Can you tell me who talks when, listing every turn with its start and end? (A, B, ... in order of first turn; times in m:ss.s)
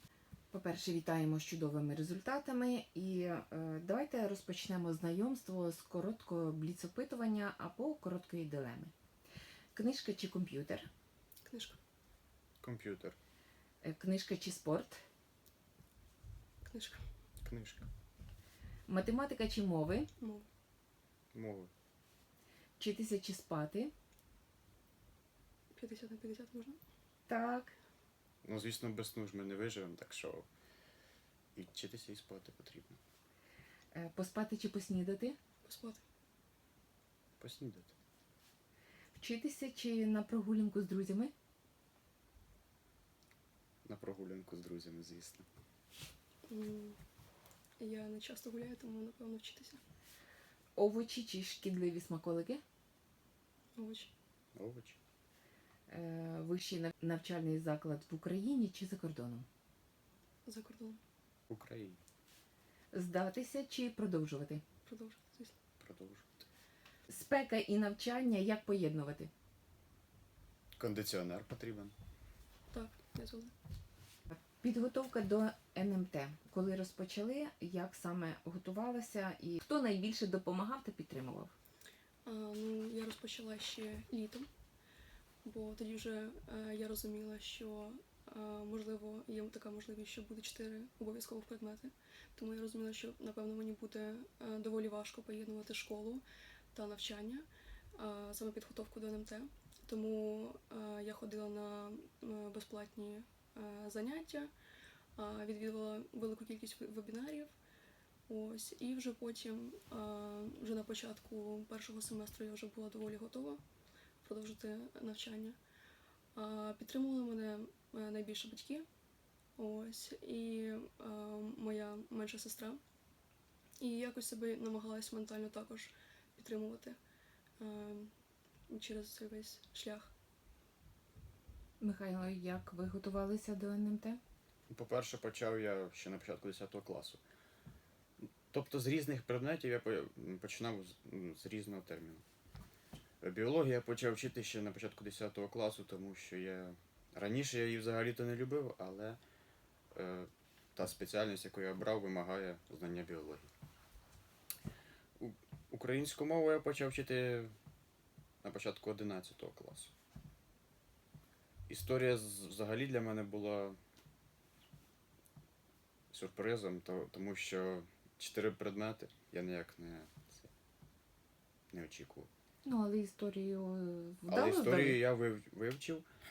0:00.5-0:08.9 A
0:09.7-0:10.9 A
0:11.4-0:11.8 B
0:12.6-0:13.2 C
0:13.8-0:15.0 A
0:16.6-0:17.0 B
0:17.4-0:17.9 C
0:18.9-0:20.1 A
0:20.2-0:20.5 B
0:21.3-0:21.7 C
0:22.8-0:23.9 A
0:25.7-0:26.8 B
0:27.3-0:27.7 A
0:28.4-0:30.5 C
0:31.5-0:33.0 C
0:33.9-0:35.4 A
0:35.6-0:36.0 B
0:37.4-0:38.0 C
0:39.1-0:41.3 A
0:43.8-0:45.5 C
0:46.5-0:47.0 B
0:47.8-0:49.8 B
0:50.8-0:52.6 A
0:53.7-0:54.1 B
0:54.5-0:55.0 C
0:55.9-0:59.5 A
1:00.4-1:01.0 B
1:01.5-1:02.0 C
1:02.9-1:04.6 A
1:04.8-1:05.6 B
1:05.8-1:06.4 C
1:07.1-1:09.3 A
1:10.8-1:11.9 C
1:12.7-1:13.5 B
1:14.3-1:21.5 A
1:22.2-1:24.5 B
1:25.4-1:44.5 B
1:45.2-1:47.5 B
1:48.3-1:53.6 B
1:54.2-1:55.6 B
1:56.3-1:58.9 B
1:59.6-2:02.8 B
2:03.8-2:07.0 B
2:07.6-2:08.1 B
2:08.7-2:10.1 B
2:11.8-2:14.2 A
2:14.7-2:17.2 C
2:18.5-2:22.2 C
2:23.2-2:29.2 C
2:29.9-2:33.5 C
2:35.2-2:37.5 C
2:38.4-2:39.9 C
2:41.7-2:43.8 C
2:46.1-2:50.5 C
2:51.7-2:52.3 C
2:52.6-2:55.0 A
2:54.3-2:56.0 C